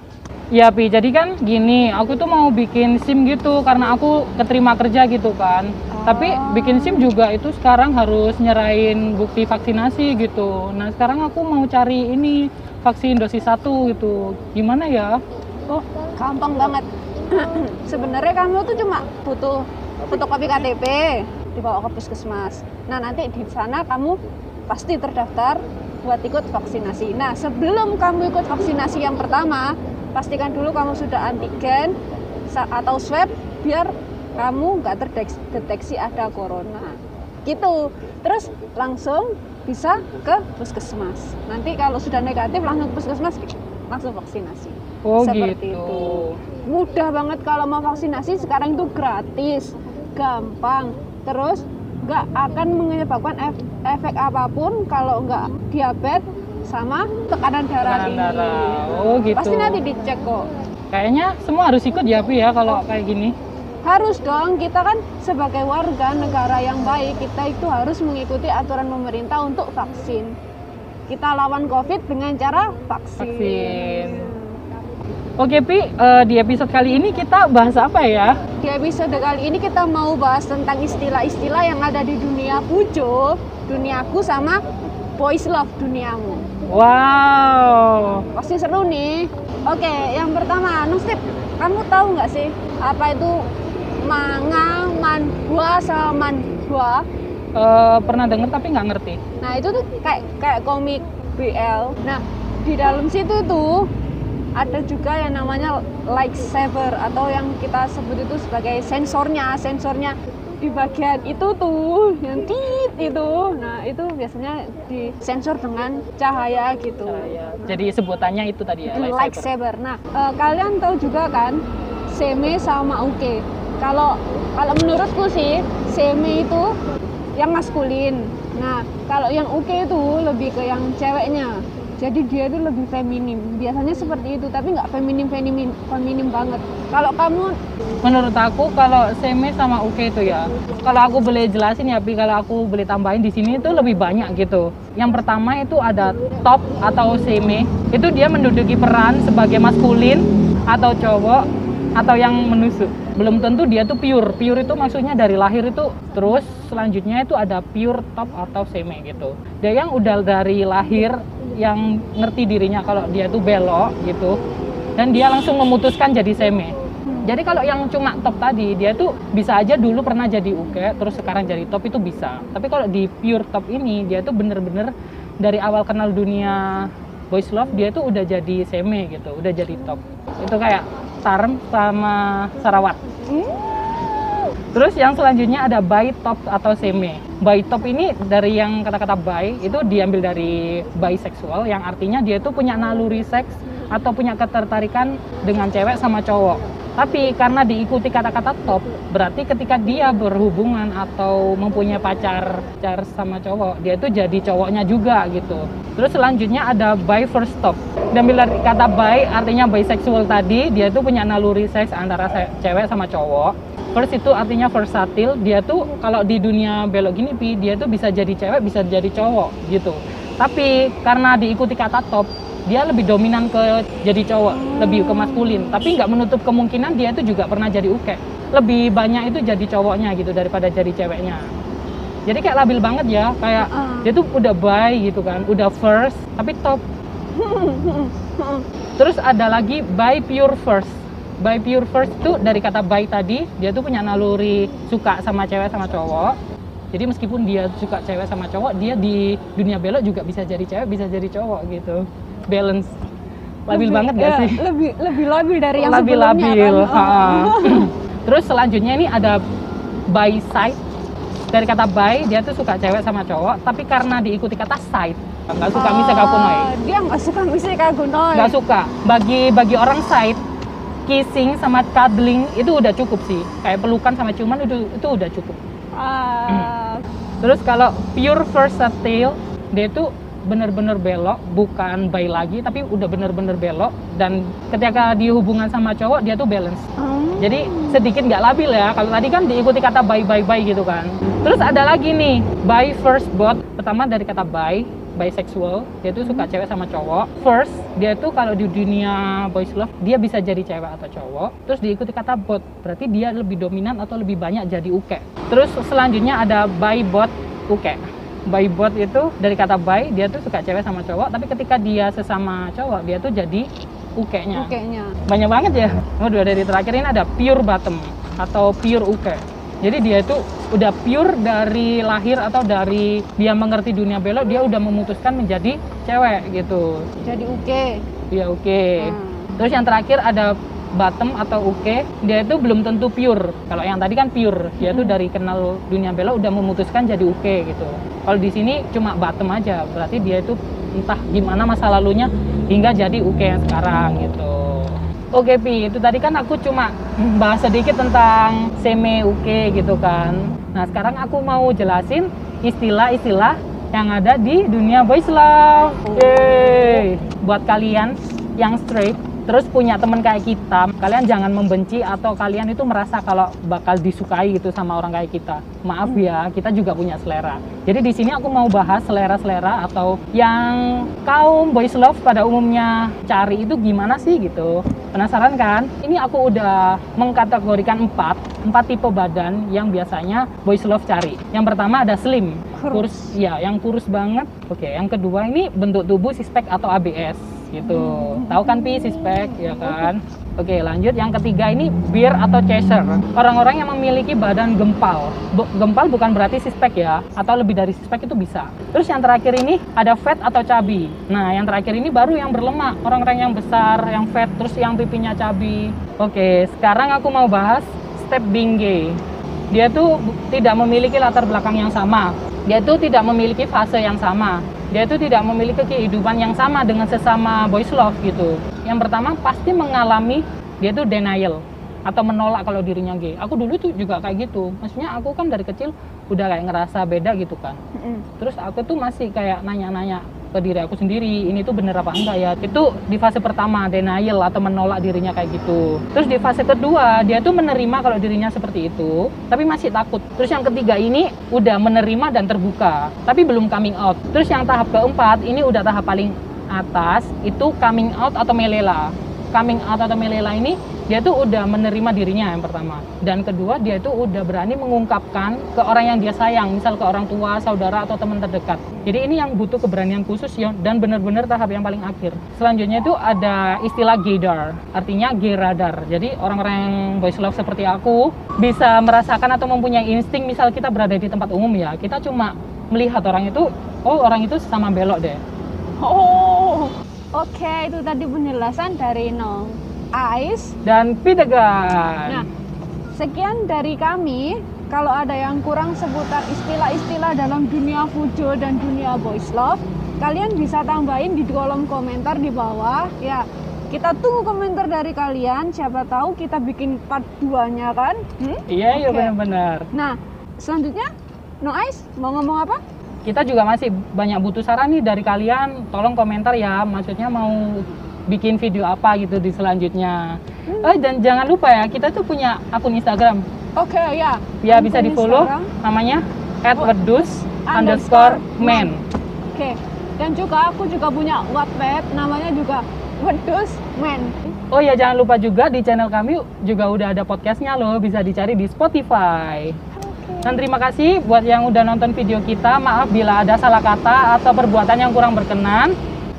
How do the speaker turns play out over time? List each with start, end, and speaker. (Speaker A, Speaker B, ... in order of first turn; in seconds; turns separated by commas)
Speaker A: 0.5-15.2, Speaker B: 5.9-7.1, Speaker B: 15.7-24.2, Speaker B: 24.7-31.9, Speaker B: 32.5-58.8, Speaker A: 45.0-46.4, Speaker A: 57.9-59.8, Speaker B: 59.4-60.5, Speaker A: 60.9-63.4, Speaker B: 63.8-70.3, Speaker B: 71.1-74.6, Speaker A: 73.2-74.3, Speaker A: 75.4-78.3, Speaker B: 78.6-86.5, Speaker A: 86.7-88.3, Speaker B: 88.3-93.4, Speaker B: 94.0-97.0, Speaker A: 97.5-99.2, Speaker B: 99.4-103.9, Speaker B: 104.6-117.4, Speaker A: 117.1-119.5, Speaker B: 118.9-126.8, Speaker B: 127.4-137.6, Speaker A: 138.0-151.4, Speaker A: 152.0-164.4, Speaker A: 165.0-183.0, Speaker B: 183.3-183.9, Speaker A: 184.7-231.4, Speaker B: 224.6-225.8, Speaker A: 232.3-236.8, Speaker B: 233.6-234.1, Speaker B: 237.3-238.7, Speaker A: 239.0-246.3, Speaker A: 246.9-252.9, Speaker A: 253.7-254.6, Speaker B: 253.7-257.9, Speaker A: 255.8-259.4, Speaker A: 260.1-260.8, Speaker A: 261.5-266.7, Speaker B: 265.7-268.6, Speaker A: 268.3-270.4, Speaker A: 271.1-275.6, Speaker B: 275.9-277.0, Speaker A: 277.4-286.8, Speaker B: 287.0-288.1, Speaker A: 287.4-314.7, Speaker B: 296.2-296.5, Speaker B: 314.5-315.2, Speaker A: 315.3-327.0, Speaker B: 327.2-328.0, Speaker A: 328.3-409.2, Speaker B: 329.0-329.5, Speaker B: 334.8-335.2, Speaker B: 356.0-357.1, Speaker B: 382.8-383.4, Speaker B: 387.8-390.1, Speaker A: 409.7-427.8, Speaker B: 427.9-428.3, Speaker A: 428.4-475.4, Speaker B: 476.0-480.8, Speaker A: 480.9-482.4, Speaker B: 483.1-499.3, Speaker A: 498.7-499.9, Speaker B: 499.9-501.1, Speaker B: 501.6-502.8, Speaker A: 503.2-513.4, Speaker B: 510.7-511.0, Speaker B: 513.8-515.7, Speaker A: 514.6-519.0, Speaker B: 516.8-518.9, Speaker B: 519.5-524.4, Speaker A: 524.7-529.8, Speaker B: 530.0-530.6, Speaker A: 530.5-535.9